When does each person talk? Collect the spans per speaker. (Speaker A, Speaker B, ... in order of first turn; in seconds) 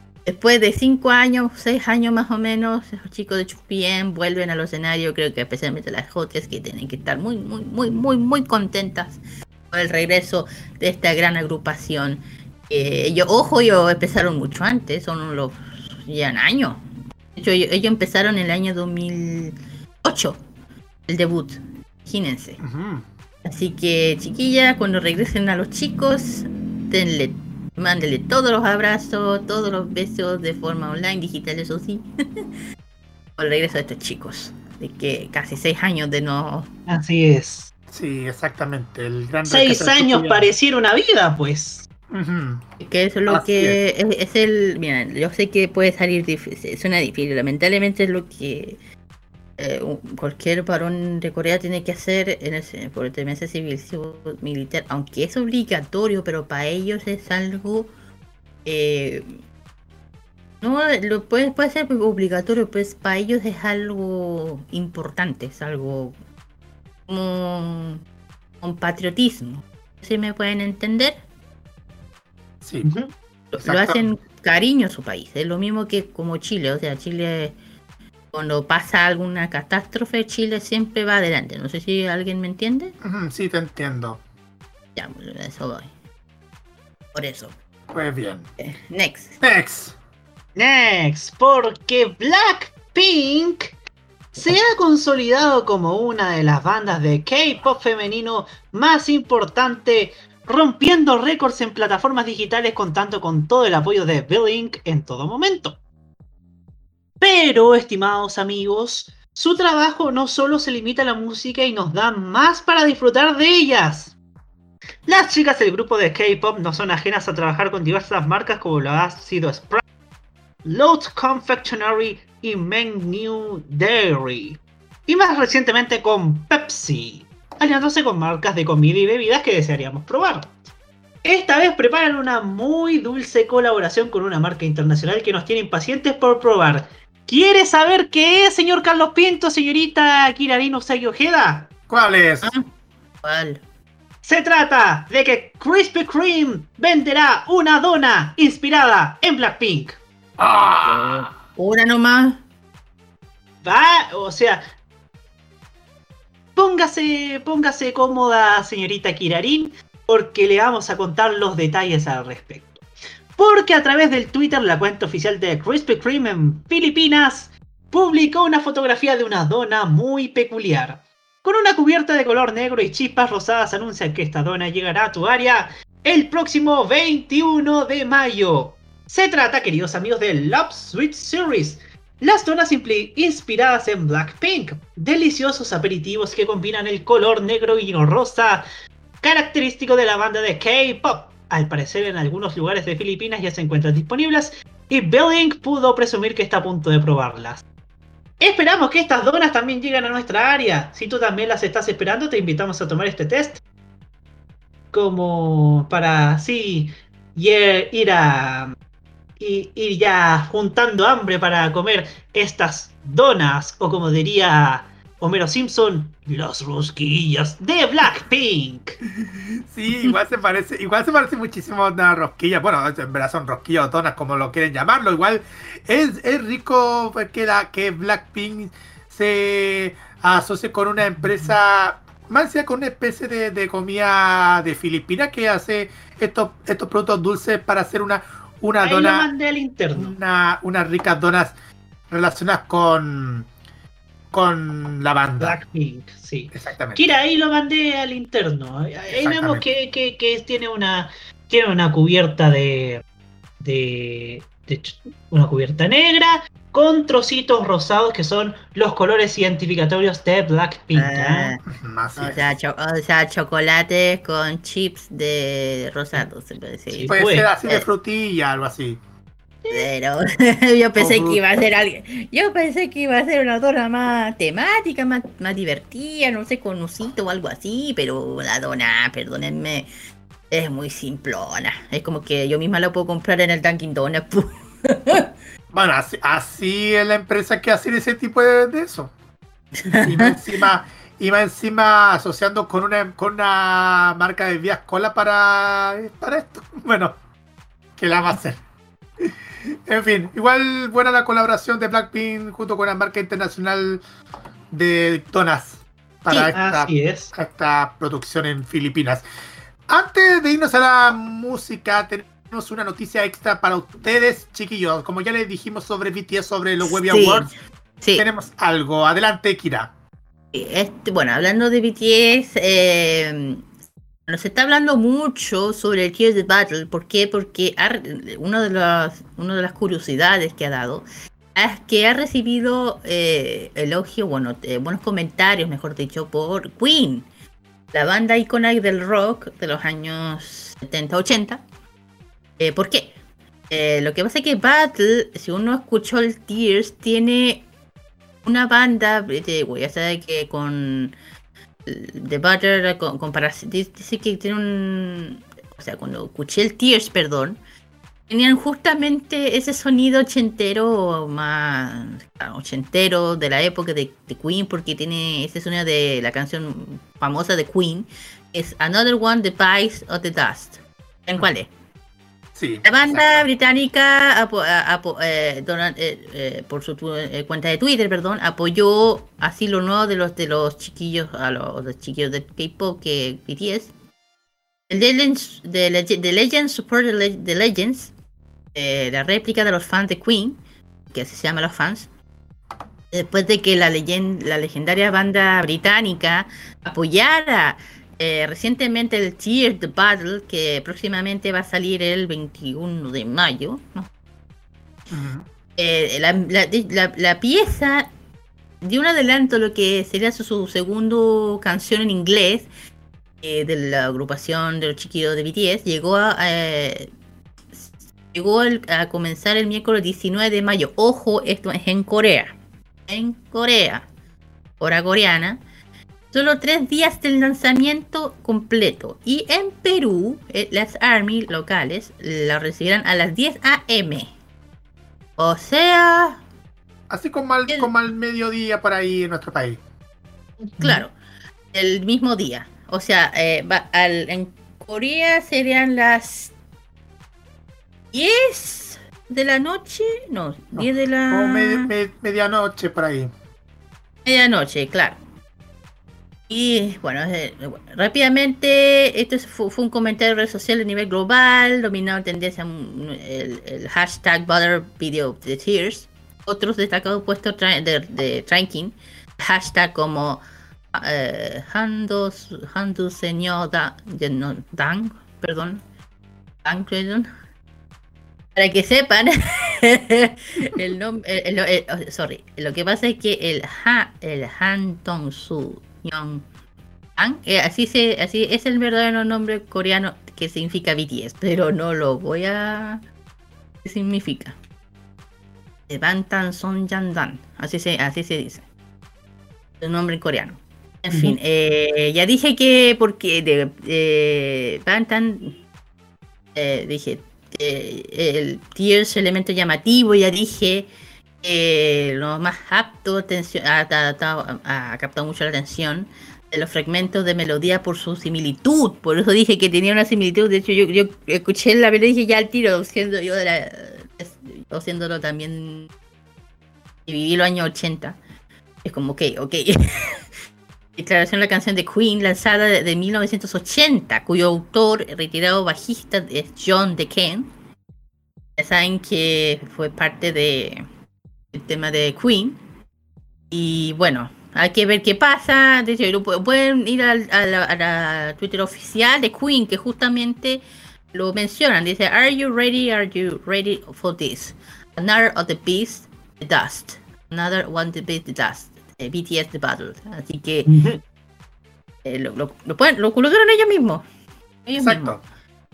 Speaker A: 0.3-9.2, 9.7-16.8, 17.4-20.4, 21.1-22.6, 23.4-32.0, 33.4-36.7, 42.8-48.8, 49.6-57.9, 58.6-59.4, 60.6-66.2, 67.1-68.0, 68.6-71.2, 73.5-77.6, 78.3-83.0, 85.0-85.9, 87.1-87.5, 88.6-89.4, 142.4-142.7, 143.2-143.6, 150.8-152.4, 260.9-261.6, 262.2-267.9, 269.7-279.9, 280.5-285.3, 289.8-290.4, 316.8-317.5, 318.0-318.3, 320.5-323.6, 324.3-337.3, 337.9-341.6, 342.6-343.1, 343.7-347.7, 348.4-351.2, 351.9-357.6, 358.3-371.7, 372.8-383.9, 384.9-388.1, 388.8-390.6, 391.1-392.1, 393.1-404.1, 405.8-408.1, 408.8-412.7, 413.4-417.1, 417.8-422.6, 423.1-424.1, 424.8-425.6, 426.3-434.3, 435.4-436.4, 440.8-441.1, 441.7-446.5, 448.1-451.9, 454.2-455.2, 456.5-470.4, 470.9-475.8, 476.6-477.3, 478.6-486.4, 487.2-493.0, 493.8-494.6, 495.9-498.6, 499.8-505.6, 506.6-510.9, 511.4-525.9, 527.1-528.2, 528.8-530.2, 531.0-537.5, 538.6-540.9, 541.5-542.6, 543.5-550.6, 551.1-560.7, 562.0-564.0, 564.7-565.2
Speaker B: 22.6-23.1, 37.9-40.5, 42.1-42.6, 43.3-43.8, 72.6-72.9, 73.6-74.1, 83.0-84.2, 87.9-88.5, 89.4-90.0, 141.9-142.5, 150.4-151.3, 219.7-239.3, 239.9-241.6, 242.1-243.5, 244.3-245.6, 246.5-247.2, 249.1-249.7, 261.7-262.5, 267.1-269.0, 271.0-271.4, 285.7-289.1, 290.0-297.2, 298.0-298.6, 299.9-304.0, 304.7-309.2, 309.9-317.5, 318.2-319.9, 372.6-373.5, 405.1-405.5, 437.1-439.8, 450.8-453.3, 564.8-565.2
Speaker C: 36.9-37.7, 39.5-41.9, 72.8-73.1, 90.6-93.8, 94.4-105.8, 107.2-114.1, 115.1-119.8, 120.6-130.6, 131.2-141.7, 144.2-150.0, 153.6-154.7, 156.6-162.8, 163.4-188.7, 189.2-197.6, 198.4-203.6, 204.9-208.8, 209.4-219.0, 231.2-231.5, 238.8-240.1, 245.4-253.0, 253.6-261.5, 266.9-267.5, 306.5-307.3, 440.6-441.1, 501.1-501.4, 560.7-561.0